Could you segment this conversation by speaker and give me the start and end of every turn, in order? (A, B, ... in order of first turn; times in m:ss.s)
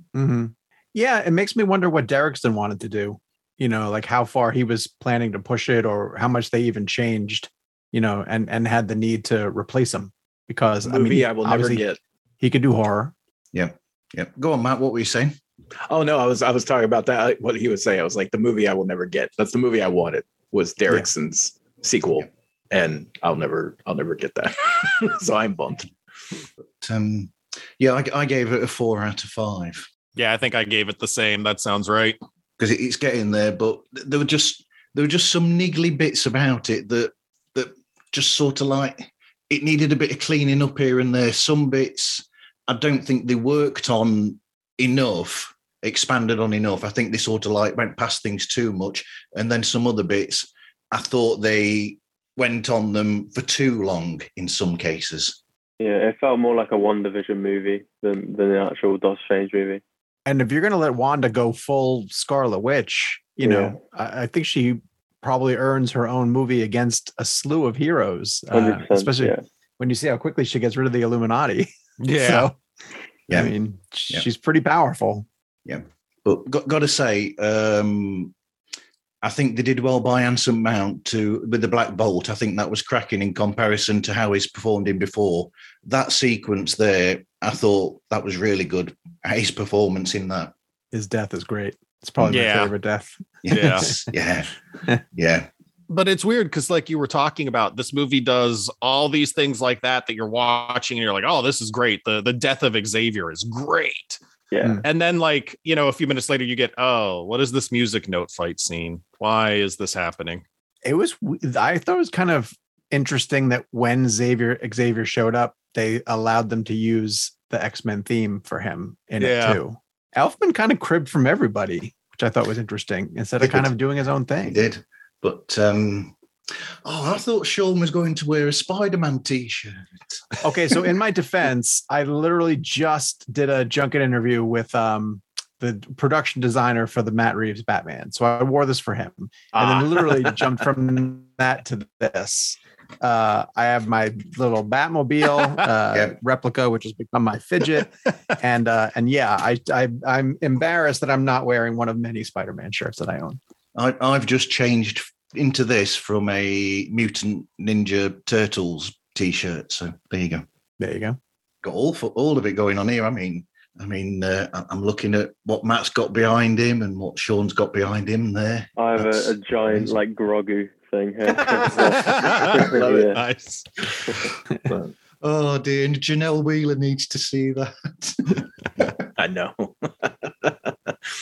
0:00.1-0:11.8 A
0:10.8-0:12.0 B
0:12.4-0:13.1 A
0:13.5-0:15.3 C
0:15.9-0:25.9 B
0:26.8-0:29.9 C
0:30.2-0:32.2 D
0:32.6-0:55.4 C
0:55.8-0:59.8 E
1:00.2-1:12.6 A
1:03.4-1:03.8 E
1:08.5-1:09.4 E
1:12.0-1:12.5 D
1:13.3-1:15.2 A
1:15.6-1:18.3 C
1:19.2-1:30.5 C
1:30.9-1:34.0 A
1:32.2-1:32.7 D
1:33.4-1:34.5 C
1:33.5-1:33.9 D
1:35.1-1:35.5 C
1:35.9-1:44.2 D
1:44.5-1:44.8 E
1:44.8-1:50.4 D
1:50.8-2:04.6 A
1:59.2-1:59.6 D
2:03.4-2:03.7 C
2:04.5-2:06.1 C
2:06.8-2:10.4 C
2:10.4-2:33.4 A
2:19.5-2:20.6 B
2:33.7-2:40.4 C
2:40.8-2:41.2 A
2:41.6-2:50.0 C
2:48.8-2:53.2 E
2:51.7-2:54.3 D
2:55.2-2:59.0 C
2:59.2-3:00.9 B